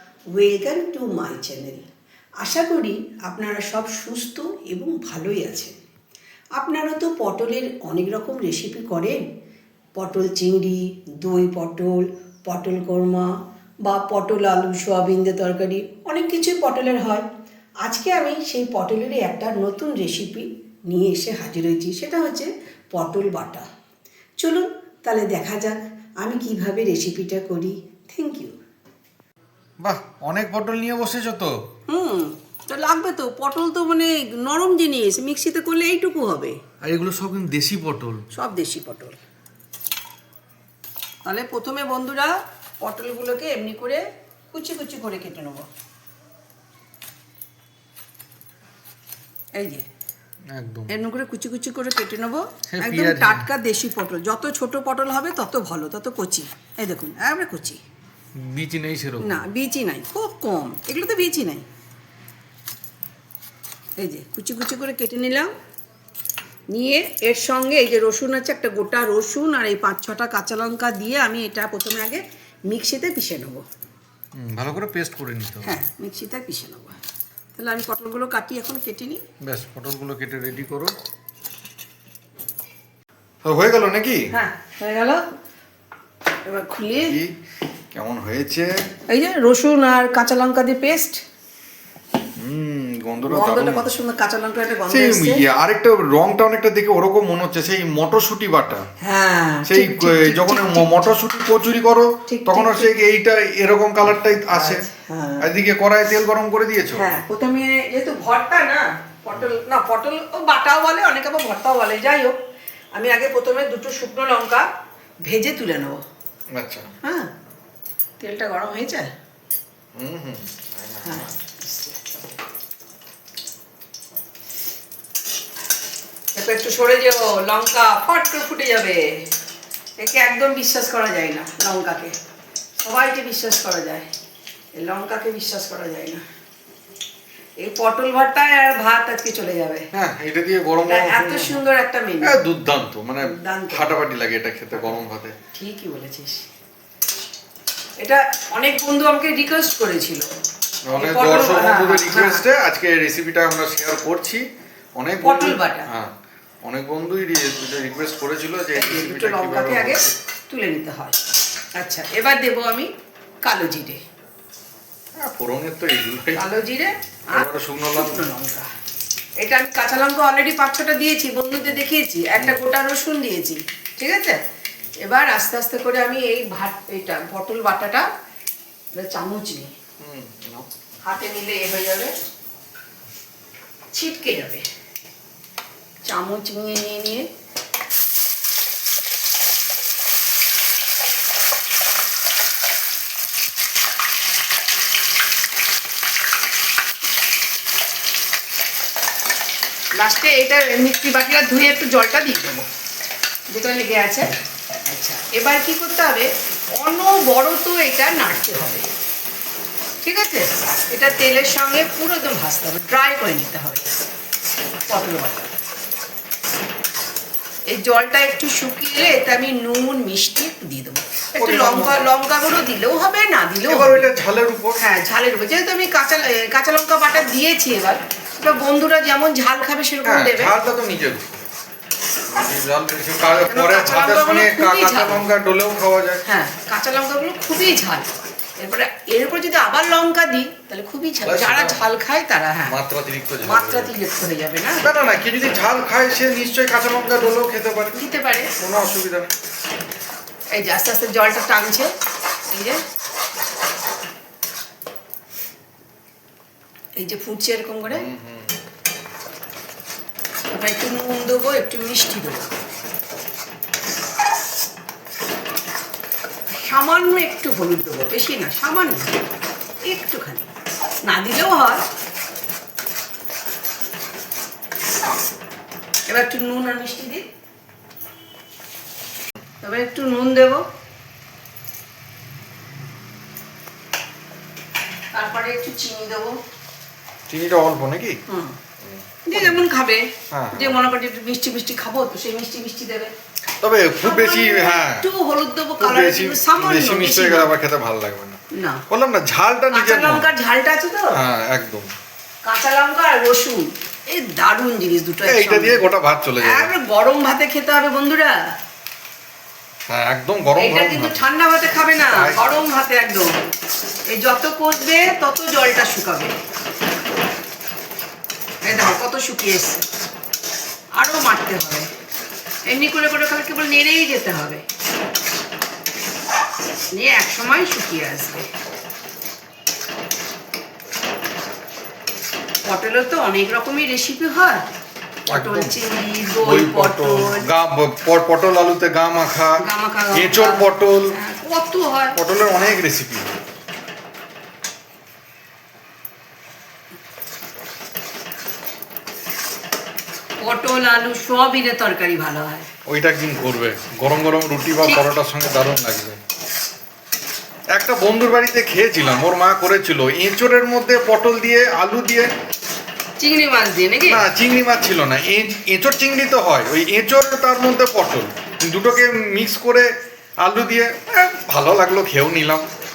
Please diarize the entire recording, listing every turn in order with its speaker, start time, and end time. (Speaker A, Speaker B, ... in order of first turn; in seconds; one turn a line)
Speaker A: 0.3-1.9
Speaker A: 2.4-5.7
Speaker A: 6.6-9.2
Speaker A: 10.0-13.3
Speaker A: 13.8-17.2
Speaker A: 17.8-23.7
Speaker A: 24.4-28.5
Speaker B: 29.8-31.5
Speaker A: 31.9-36.6
Speaker B: 36.8-38.3
Speaker A: 38.3-39.2
Speaker A: 41.2-45.7
Speaker A: 49.6-49.8
Speaker B: 50.5-50.9
Speaker A: 50.9-57.8
Speaker B: 52.7-53.5
Speaker B: 58.4-59.4
Speaker A: 59.2-61.7
Speaker A: 64.0-65.5
Speaker A: 66.7-73.6
Speaker B: 74.4-75.8
Speaker A: 75.6-77.0
Speaker A: 77.5-79.2
Speaker B: 79.4-81.0
Speaker B: 83.4-84.3
Speaker A: 84.3-85.2
Speaker A: 86.5-87.2
Speaker B: 87.1-87.3
Speaker B: 87.9-88.7
Speaker A: 89.1-91.2
Speaker B: 92.4-93.9
Speaker A: 93.2-95.4
Speaker B: 94.9-98.9
Speaker A: 99.0-100.9
Speaker B: 99.7-104.9
Speaker A: 102.3-102.9
Speaker A: 104.5-105.5
Speaker B: 105.4-107.1
Speaker A: 107.0-112.4
Speaker A: 113.0-114.7
Speaker A: 115.3-116.0
Speaker B: 116.5-116.9
Speaker A: 117.0-117.3
Speaker A: 118.2-119.1
Speaker B: 120.0-121.3
Speaker A: 121.0-122.4
Speaker A: 126.3-129.2
Speaker A: 130.0-132.1
Speaker A: 132.8-134.1
Speaker A: 134.8-136.2
Speaker A: 137.6-139.8
Speaker B: 139.9-141.6
Speaker A: 140.9-142.4
Speaker B: 142.2-145.3
Speaker A: 143.2-143.9
Speaker A: 145.5-146.5
Speaker A: 148.0-150.3
Speaker B: 150.9-154.4
Speaker A: 150.9-152.4
Speaker B: 155.0-156.1
Speaker A: 155.2-155.9
Speaker B: 156.7-160.1
Speaker A: 158.8-161.2
Speaker A: 161.8-162.9
Speaker A: 163.4-164.0
Speaker B: 165.2-166.4
Speaker A: 166.3-168.7
Speaker B: 167.3-168.2
Speaker A: 169.4-174.4
Speaker A: 175.0-178.1
Speaker A: 178.9-179.7
Speaker B: 180.0-180.7
Speaker A: 181.0-182.1
Speaker A: 183.9-184.7
Speaker A: 186.1-187.2
Speaker A: 200.0-202.7
Speaker A: 203.5-204.3
Speaker A: 204.9-208.8
Speaker A: 210.0-213.9
Speaker A: 214.9-215.5
Speaker A: 217.7-224.1
Speaker B: 221.4-222.1
Speaker B: 223.7-224.8
Speaker A: 224.8-230.5
Speaker B: 230.1-231.4
Speaker B: 232.3-236.2
Speaker A: 233.4-235.2
Speaker A: 236.2-242.8
Speaker B: 241.2-241.8
Speaker B: 242.7-243.9
Speaker A: 243.4-244.8
Speaker B: 244.8-248.0
Speaker A: 247.9-248.5
Speaker B: 248.6-249.3
Speaker A: 250.5-251.9
Speaker A: 252.5-252.8
Speaker A: 257.0-258.1
Speaker B: 257.8-258.6
Speaker A: 260.5-262.5
Speaker A: 266.6-269.1
Speaker A: 269.8-270.4
Speaker A: 271.1-271.8
Speaker A: 276.1-277.2
Speaker A: 279.6-280.6
Speaker A: 285.1-286.4
Speaker B: 287.3-288.2
Speaker A: 288.3-288.6
Speaker B: 288.8-289.7
Speaker A: 289.3-293.1
Speaker B: 290.3-290.9
Speaker B: 293.6-295.1
Speaker A: 294.0-297.5
Speaker B: 295.8-300.3
Speaker A: 298.5-298.8
Speaker A: 299.7-301.1
Speaker B: 301.1-301.9
Speaker A: 302.4-305.8
Speaker B: 305.2-306.7
Speaker A: 306.4-308.4
Speaker B: 309.9-311.2
Speaker A: 310.6-313.3
Speaker B: 312.1-312.4
Speaker A: 314.1-316.3
Speaker A: 318.6-319.8
Speaker A: 321.0-321.9
Speaker A: 322.7-324.6
Speaker A: 326.9-328.5
Speaker A: 332.6-334.6
Speaker B: 335.3-335.8
Speaker A: 335.3-337.4
Speaker B: 336.4-339.6
Speaker A: 339.6-342.1
Speaker B: 340.1-341.1
Speaker B: 342.1-343.3
Speaker A: 350.4-352.7
Speaker B: 352.9-356.2
Speaker A: 354.8-355.1
Speaker B: 357.7-362.3
Speaker A: 363.2-364.2
Speaker B: 364.1-369.9
Speaker B: 370.4-372.7